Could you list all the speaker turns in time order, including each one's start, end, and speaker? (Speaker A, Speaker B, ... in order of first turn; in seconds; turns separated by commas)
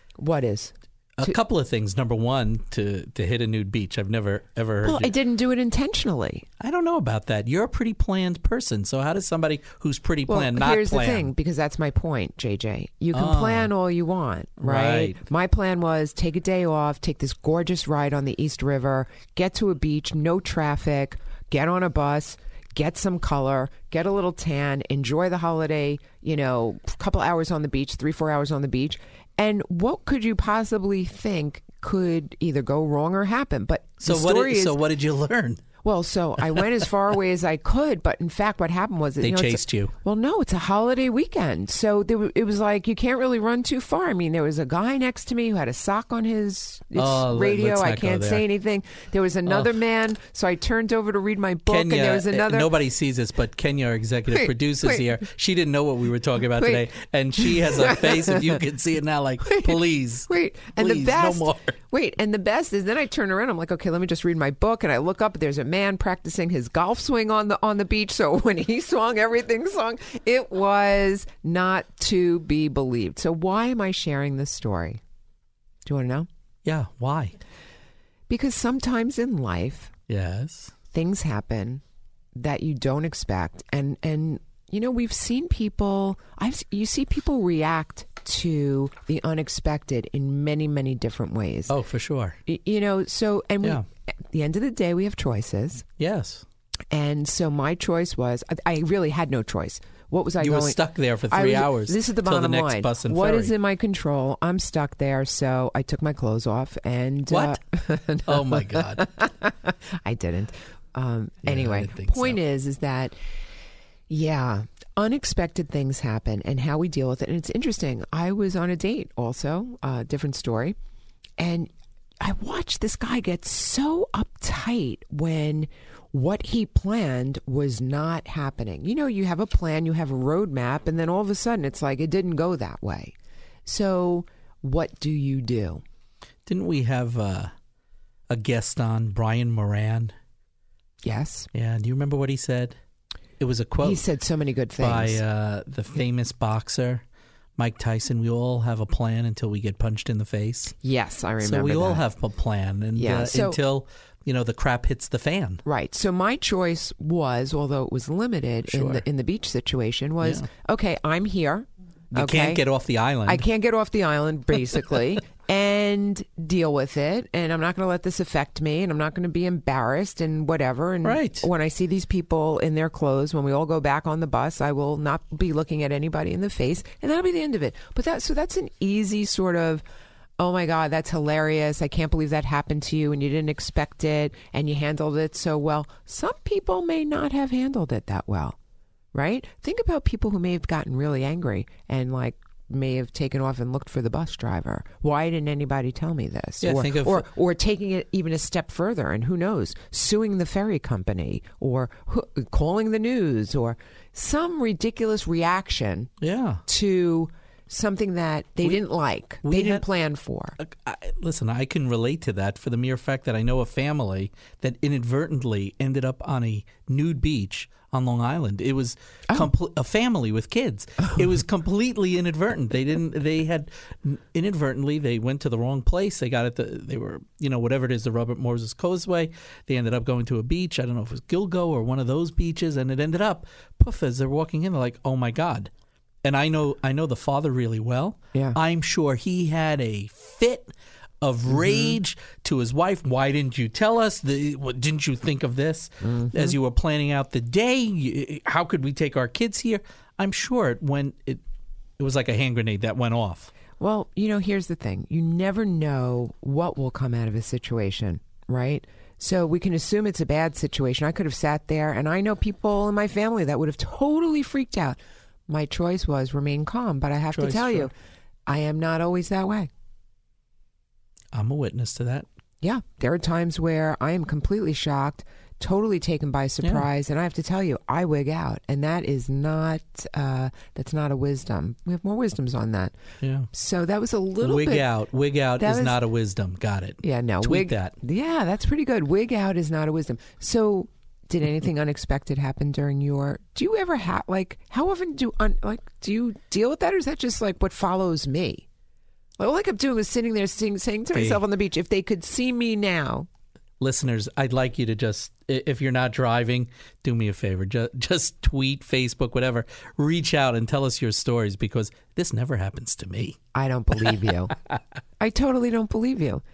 Speaker A: 0.2-1.4, Speaker B: 1.2-5.1, Speaker A: 4.8-6.5, Speaker B: 6.6-11.3, Speaker A: 10.3-34.8, Speaker B: 13.1-13.7, Speaker B: 14.6-15.2, Speaker B: 34.0-35.6, Speaker A: 35.8-52.7, Speaker B: 39.2-39.9, Speaker B: 46.9-48.5, Speaker B: 51.7-61.8, Speaker A: 54.3-55.0, Speaker A: 56.6-56.9, Speaker A: 57.4-58.6, Speaker A: 59.4-75.0, Speaker A: 75.8-76.3, Speaker B: 76.7-77.4, Speaker A: 78.3-79.9, Speaker B: 80.1-80.7, Speaker A: 80.9-81.8, Speaker A: 82.3-91.7, Speaker B: 91.7-92.4, Speaker A: 92.5-95.8, Speaker B: 96.0-96.5, Speaker A: 96.9-113.2, Speaker B: 100.4-103.5, Speaker B: 107.3-107.6, Speaker B: 108.3-109.1, Speaker B: 111.4-112.4, Speaker A: 114.1-120.8, Speaker A: 121.4-121.7, Speaker A: 122.2-133.1, Speaker A: 133.7-135.8, Speaker B: 136.5-137.5, Speaker B: 138.3-140.1, Speaker A: 141.0-141.5, Speaker B: 141.5-142.8, Speaker B: 143.4-144.0, Speaker A: 143.8-145.2, Speaker B: 144.8-147.0, Speaker B: 147.6-150.7, Speaker A: 150.8-152.1, Speaker B: 151.4-155.6, Speaker A: 152.9-153.6, Speaker A: 155.7-162.6, Speaker B: 158.6-159.1, Speaker B: 160.2-160.5, Speaker B: 162.1-163.5, Speaker A: 163.3-179.8, Speaker B: 171.0-171.5, Speaker A: 180.4-188.6, Speaker A: 189.1-206.1, Speaker B: 196.6-197.3, Speaker B: 206.2-206.6, Speaker A: 206.7-210.6, Speaker B: 209.4-209.8, Speaker B: 210.6-235.7, Speaker B: 236.2-251.4, Speaker A: 241.5-241.9, Speaker A: 246.0-246.6, Speaker B: 252.0-253.5, Speaker A: 253.8-267.9, Speaker B: 267.3-267.9, Speaker A: 268.5-269.7, Speaker B: 271.3-272.3, Speaker A: 272.6-283.0, Speaker B: 276.6-276.9, Speaker B: 283.2-283.5, Speaker A: 283.5-284.9, Speaker B: 284.4-287.9, Speaker A: 285.6-286.0, Speaker A: 287.0-298.7, Speaker A: 299.4-303.3, Speaker B: 301.1-301.4, Speaker B: 303.8-313.4, Speaker A: 313.5-314.6, Speaker A: 315.2-316.4